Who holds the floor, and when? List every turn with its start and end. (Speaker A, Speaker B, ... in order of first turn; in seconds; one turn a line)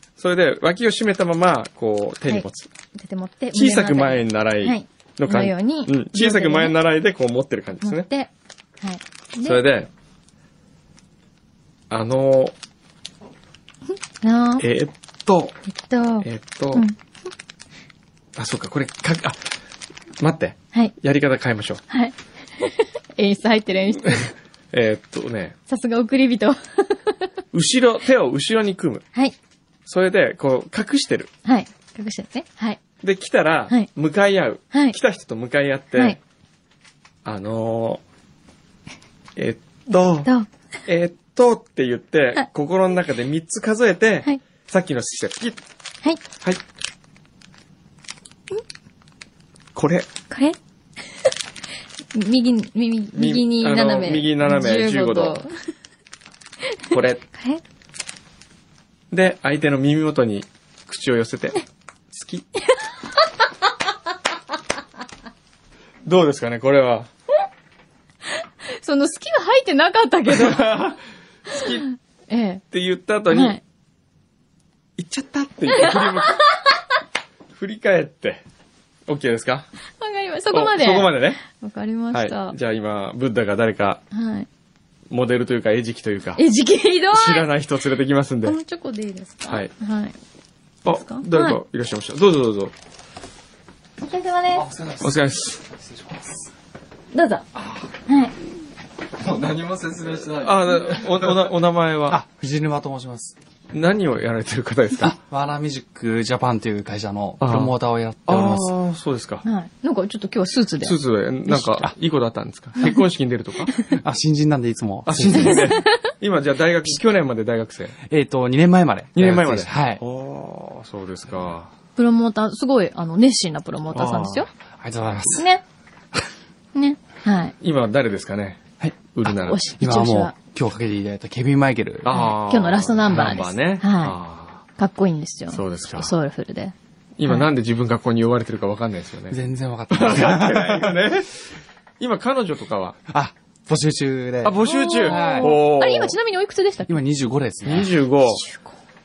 Speaker A: 0.2-2.7
Speaker B: 2.3-6.7
Speaker A: 3.5-8.1
Speaker B: 7.8-8.3
Speaker B: 8.8-9.6
Speaker A: 9.4-9.9
Speaker A: 11.9-12.5
Speaker B: 14.2-14.6
Speaker A: 14.6-15.5
Speaker B: 15.7-16.9
Speaker A: 16.2-16.9
Speaker A: 18.4-19.4
Speaker A: 20.2-21.8
Speaker B: 21.9-24.3
Speaker A: 24.7-25.6
Speaker B: 25.7-27.2
Speaker A: 27.5-29.1
Speaker A: 29.9-31.3
Speaker B: 31.4-32.8
Speaker A: 33.0-36.2
Speaker A: 37.2-38.0
Speaker A: 39.4-40.3
Speaker A: 40.9-45.6
Speaker A: 49.7-50.1
Speaker B: 50.3-50.5
Speaker B: 52.1-55.5
Speaker A: 53.1-55.4
Speaker B: 56.9-57.6
Speaker A: 56.9-57.2
Speaker A: 59.1-61.6
Speaker A: 62.1-62.5
Speaker A: 66.0-67.1
Speaker B: 68.7-70.8
Speaker A: 70.3-71.8
Speaker B: 71.5-72.6
Speaker A: 72.7-73.6
Speaker B: 73.3-73.6
Speaker A: 75.0-76.4
Speaker B: 75.7-76.4
Speaker A: 77.5-78.4
Speaker A: 79.1-79.7
Speaker B: 80.0-82.5
Speaker A: 80.5-81.4
Speaker A: 82.1-84.0
Speaker B: 84.1-84.5
Speaker A: 85.1-86.4
Speaker B: 86.3-87.5
Speaker A: 87.1-88.6
Speaker B: 88.4-90.1
Speaker A: 90.8-92.7
Speaker B: 90.9-91.6
Speaker B: 94.0-94.7
Speaker C: 94.5-95.1
Speaker A: 95.0-95.7
Speaker C: 95.8-96.3
Speaker B: 97.1-97.5
Speaker B: 98.0-98.3
Speaker A: 99.2-102.2
Speaker C: 99.4-101.3
Speaker C: 102.1-103.3
Speaker A: 103.7-105.1
Speaker C: 105.0-108.7
Speaker A: 107.4-109.4
Speaker B: 109.4-111.0
Speaker A: 110.8-113.7
Speaker C: 111.5-111.9
Speaker C: 113.9-115.8
Speaker A: 115.0-118.0
Speaker B: 115.3-116.1
Speaker C: 118.0-120.0
Speaker A: 119.2-121.7
Speaker B: 122.0-124.5
Speaker A: 123.9-124.5
Speaker C: 124.8-125.5
Speaker B: 125.3-125.6
Speaker B: 126.7-127.5
Speaker A: 127.6-129.6
Speaker C: 128.8-129.1
Speaker B: 129.4-130.3
Speaker C: 129.8-132.1
Speaker A: 132.0-134.6
Speaker B: 132.1-134.2
Speaker B: 134.8-136.7
Speaker A: 135.5-136.1
Speaker A: 137.2-139.4
Speaker C: 139.3-140.9
Speaker A: 139.9-141.4
Speaker A: 142.0-143.0
Speaker C: 143.1-145.6
Speaker A: 144.4-146.1
Speaker B: 144.6-146.9
Speaker C: 146.9-147.9
Speaker A: 147.6-148.4
Speaker B: 148.2-148.7